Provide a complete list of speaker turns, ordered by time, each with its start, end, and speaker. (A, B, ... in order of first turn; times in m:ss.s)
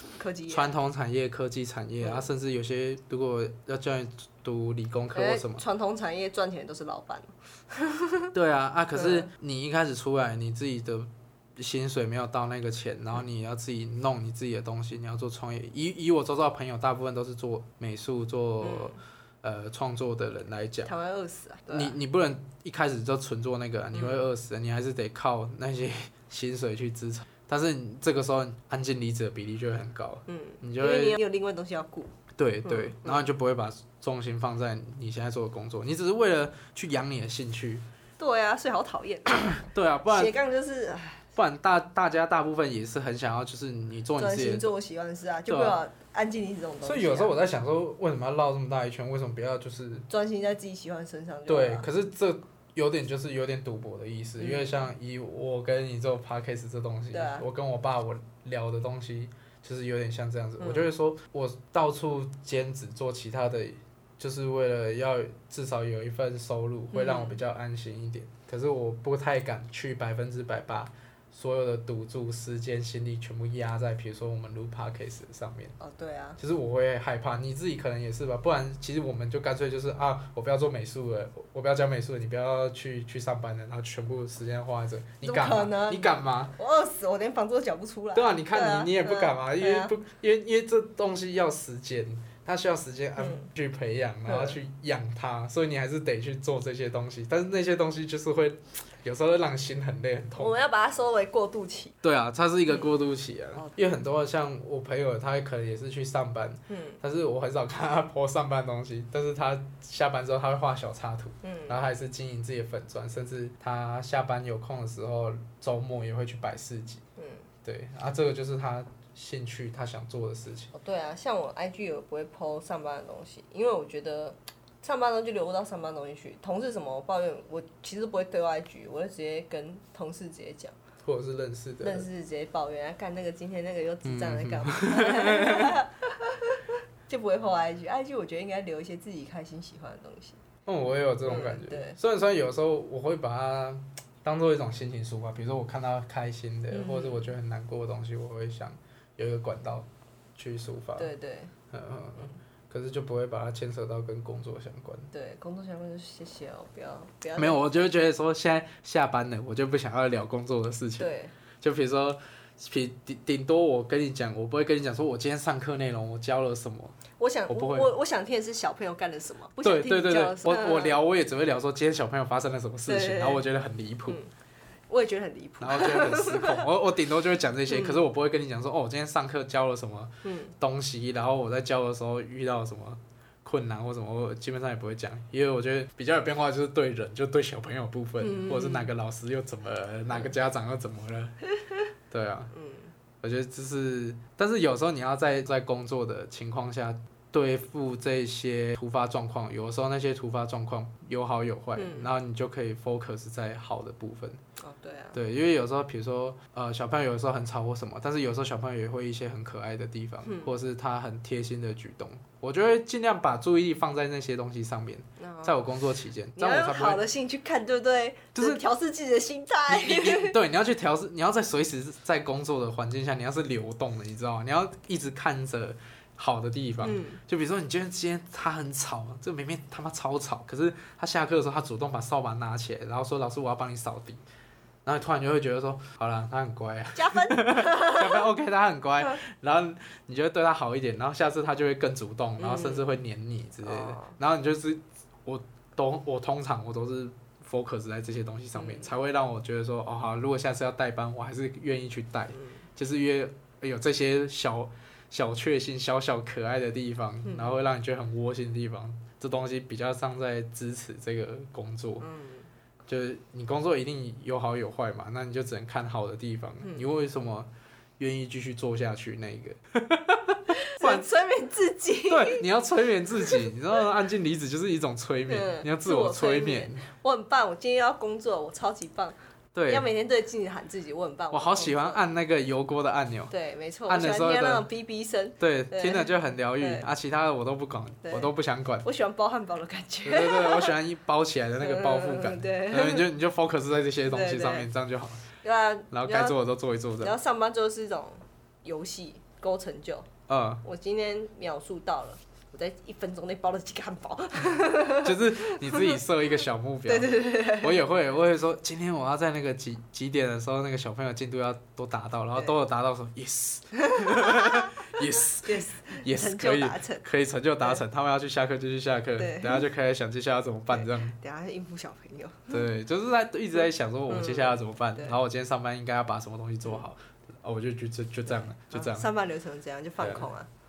0:00.2-0:00.8 A
0:00.5-0:05.6 B
0:02.0-0:02.3 A
0:05.1-0:08.3 A
0:08.3-0:20.9 B
0:08.9-0:09.3 A
0:18.6-0:19.0 A
0:20.8-0:21.9 A
0:21.7-0:31.2 B
0:23.9-0:24.2 A
0:30.3-0:32.1 A
0:32.4-0:37.8 B
0:32.6-0:33.3 A
0:38.2-0:41.2 A
0:39.6-0:40.3 B
0:41.4-0:44.7 B
0:44.2-0:47.3 A
0:45.5-0:45.8 B
0:46.8-0:50.1 B
0:50.1-0:51.9 A
0:51.5-1:15.8 B
0:54.4-0:54.8 A
0:57.1-0:57.4 A
1:00.6-1:00.9 A
1:06.9-1:07.4 A
1:15.8-1:16.4 A
1:16.4-1:26.5 B
1:25.2-1:29.9 A
1:28.1-1:40.6 B
1:33.2-1:33.5 A
1:34.3-1:34.6 A
1:40.4-1:42.0 A
1:42.0-1:57.0 B
1:46.7-1:47.0 A
1:51.4-1:51.8 A
1:57.2-1:57.4 A
1:57.6-2:00.7 B
2:00.7-2:10.8 A
2:11.0-2:12.1 B
2:11.8-2:20.4 A
2:14.0-2:15.8 B
2:20.6-2:31.1 B
2:21.2-2:22.0 A
2:26.7-2:27.3 A
2:31.0-2:31.5 A
2:31.7-2:35.1 B
2:35.1-2:37.6 A
2:37.4-2:41.1 B
2:41.0-2:41.3 A
2:41.6-2:47.9 B
2:47.2-2:51.0 A
2:49.6-2:54.2 B
2:52.9-2:53.4 A
2:54.9-2:56.6 A
2:55.6-3:11.3 B
2:57.7-2:58.0 A
3:00.2-3:00.5 A
3:08.2-3:08.9 A
3:12.1-3:12.5 B
3:12.5-3:12.9 A
3:13.2-3:24.4 B
3:21.8-3:22.1 A
3:24.6-3:25.2 A
3:25.1-3:37.0 B
3:30.2-3:30.5 A
3:35.2-3:35.6 A
3:36.4-3:40.4 A
3:38.3-3:38.6 B
3:39.7-3:54.2 B
3:46.8-3:47.2 A
3:54.8-4:22.1 B
3:57.0-3:58.2 A
4:02.4-4:02.9 A
4:03.6-4:04.2 A
4:08.5-4:08.9 A
4:12.3-4:12.6 A
4:17.2-4:17.6 A
4:22.0-4:22.5 A
4:22.9-4:31.1 B
4:30.6-4:32.4 A
4:32.1-4:36.8 B
4:35.3-4:39.2 A
4:39.5-4:39.8 B
4:39.7-4:42.0 A
4:41.3-4:43.3 B
4:43.3-4:46.8 A
4:43.9-4:44.7 B
4:45.4-4:48.9 B
4:48.0-4:48.3 A
4:48.8-4:50.8 A
4:50.0-4:55.3 B
4:51.6-4:53.0 A
4:54.1-4:54.7 A
4:55.4-4:56.4 A
4:55.9-4:57.2 B
4:57.0-5:00.1 A
5:00.3-5:00.6 B
5:00.6-5:06.0 A
5:05.0-5:21.2 B
5:06.9-5:07.8 A
5:13.8-5:17.0 A
5:19.2-5:19.6 A
5:20.7-5:22.6 A
5:22.5-5:29.1 B
5:24.1-5:25.2 A
5:28.3-5:30.5 A
5:30.0-5:30.3 B